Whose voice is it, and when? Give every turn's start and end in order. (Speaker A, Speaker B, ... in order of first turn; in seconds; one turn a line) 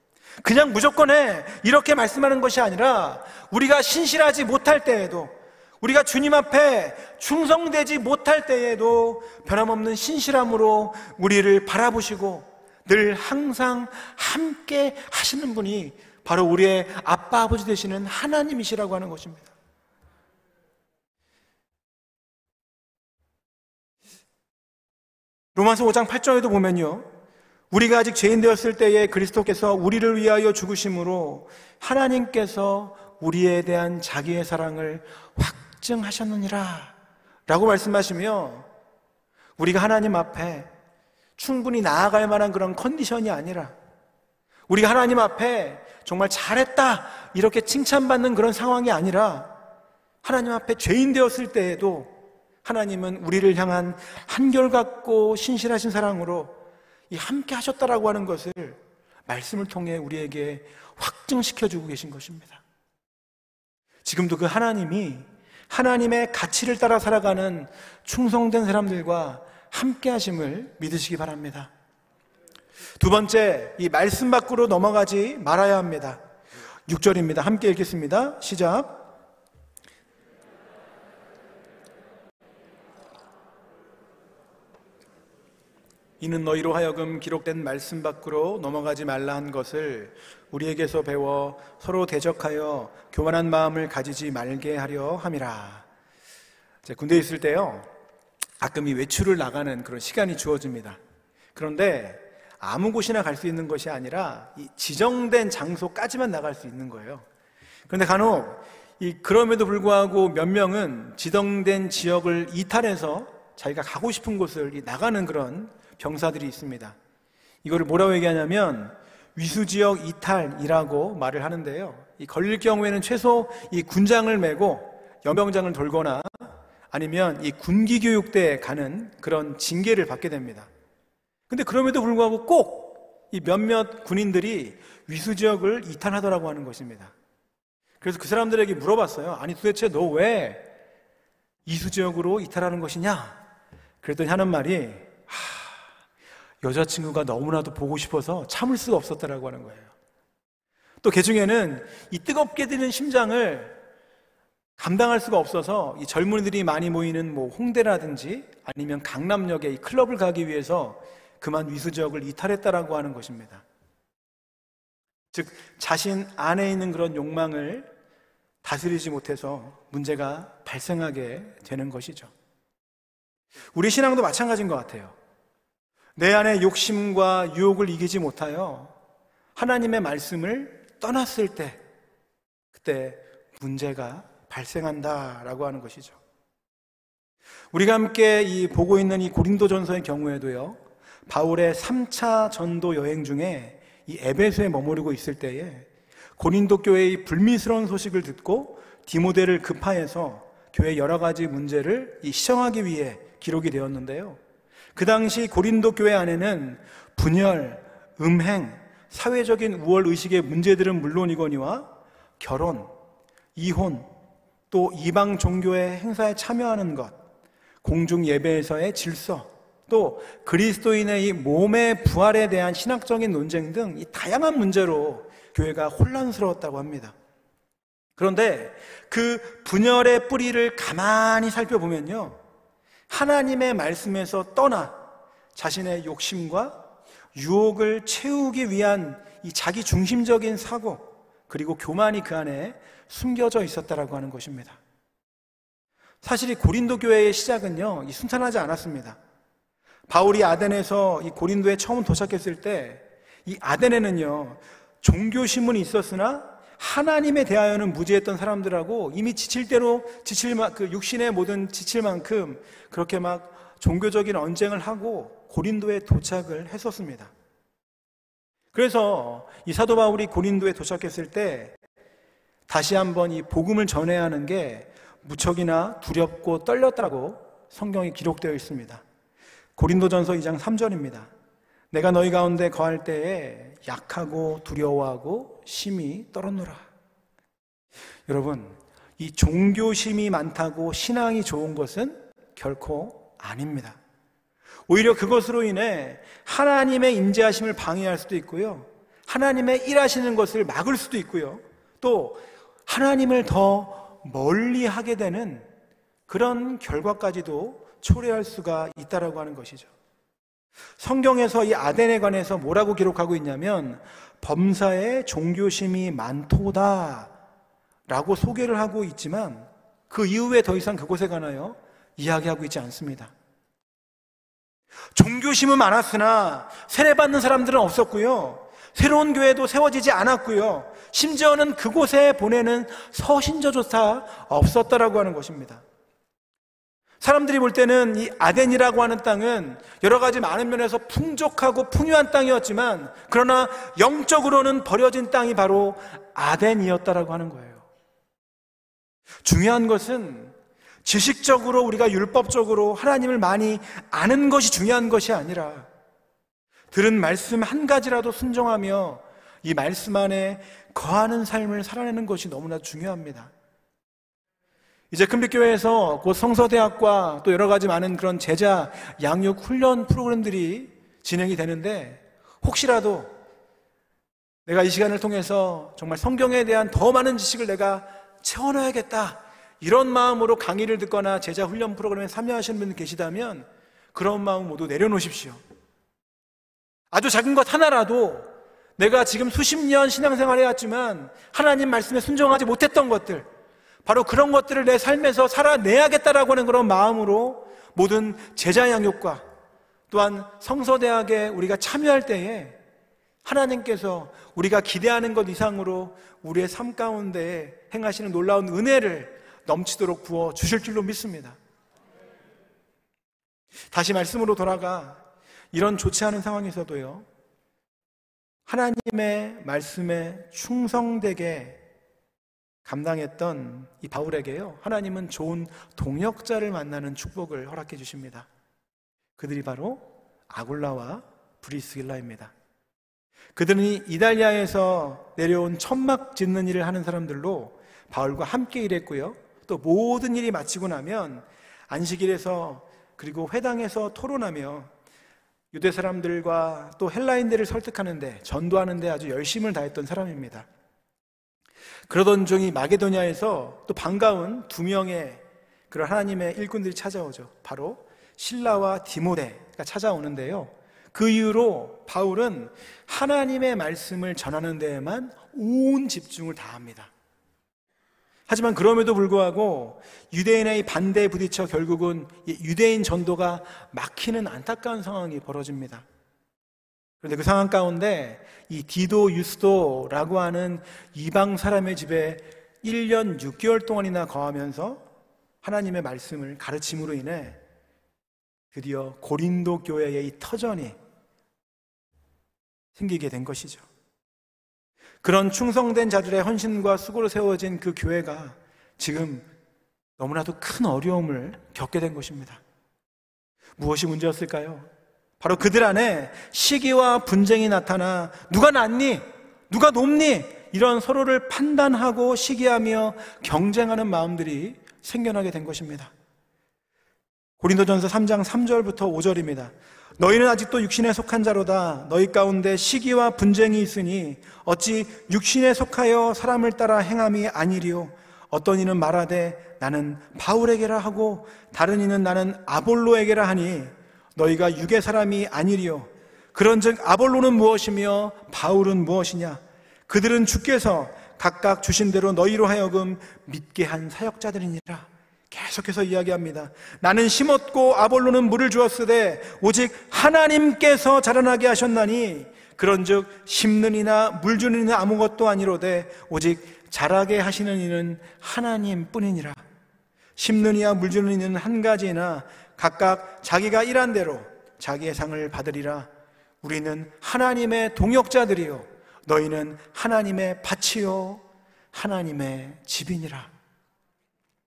Speaker A: 0.4-19.5
Speaker A: 25.6-27.1
Speaker A: 27.7-36.9
Speaker A: 37.5-38.7
Speaker A: 39.6-40.7
Speaker A: 41.4-43.7
Speaker A: 44.7-49.5
Speaker A: 50.2-56.6
Speaker A: 57.1-62.6
Speaker A: 64.0-71.7
Speaker A: 73.0-76.2
Speaker A: 76.9-79.1
Speaker A: 86.2-95.9
Speaker A: 96.8-97.9
Speaker A: 98.6-101.0
Speaker A: 101.5-107.3
Speaker A: 107.9-117.0
Speaker A: 117.6-130.7
Speaker A: 131.5-137.1
Speaker A: 138.0-140.7
Speaker A: 141.7-143.4
Speaker A: 144.0-145.8
Speaker A: 146.6-149.9
Speaker A: 151.0-153.8
Speaker A: 154.8-163.6
Speaker A: 165.3-167.9
Speaker A: 168.6-172.3
Speaker A: 173.7-175.2
Speaker A: 176.2-178.9
Speaker A: 179.6-181.8
Speaker A: 182.7-186.2
Speaker A: 187.7-204.4
Speaker A: 205.0-212.9
Speaker A: 213.6-214.1
Speaker A: 214.7-217.2
Speaker A: 217.8-227.2
Speaker A: 228.2-232.4
Speaker A: 233.1-235.0
Speaker A: 235.6-244.8
Speaker A: 246.2-249.2
Speaker A: 250.1-267.3
Speaker A: 268.7-271.8
Speaker A: 272.7-279.0
Speaker A: 279.8-281.3
Speaker A: 281.9-286.9
Speaker A: 288.3-294.0
Speaker A: 294.9-305.7
Speaker A: 306.3-309.9
Speaker A: 311.0-317.3
Speaker A: 318.1-323.3
Speaker A: 325.1-335.8
Speaker A: 337.2-347.9
Speaker A: 349.4-355.9
Speaker A: 356.9-363.5
Speaker A: 365.1-373.3
Speaker A: 374.7-385.6
Speaker A: 387.1-393.5
Speaker A: 394.1-399.4
Speaker A: 400.1-402.8
Speaker A: 403.4-411.6
Speaker A: 413.9-417.3
Speaker A: 418.7-421.8
Speaker A: 422.9-428.5
Speaker A: 429.4-432.5
Speaker A: 433.6-444.9
Speaker A: 445.7-450.7
Speaker A: 452.1-467.1
Speaker A: 468.5-476.1
Speaker A: 477.2-485.1
Speaker A: 485.6-487.6
Speaker A: 488.7-491.0
Speaker A: 492.9-493.9
Speaker A: 495.2-499.5
Speaker A: 500.2-502.6
Speaker A: 503.8-504.9
Speaker A: 505.4-516.1
Speaker A: 517.6-559.6
Speaker A: 560.4-566.1
Speaker A: 566.6-573.5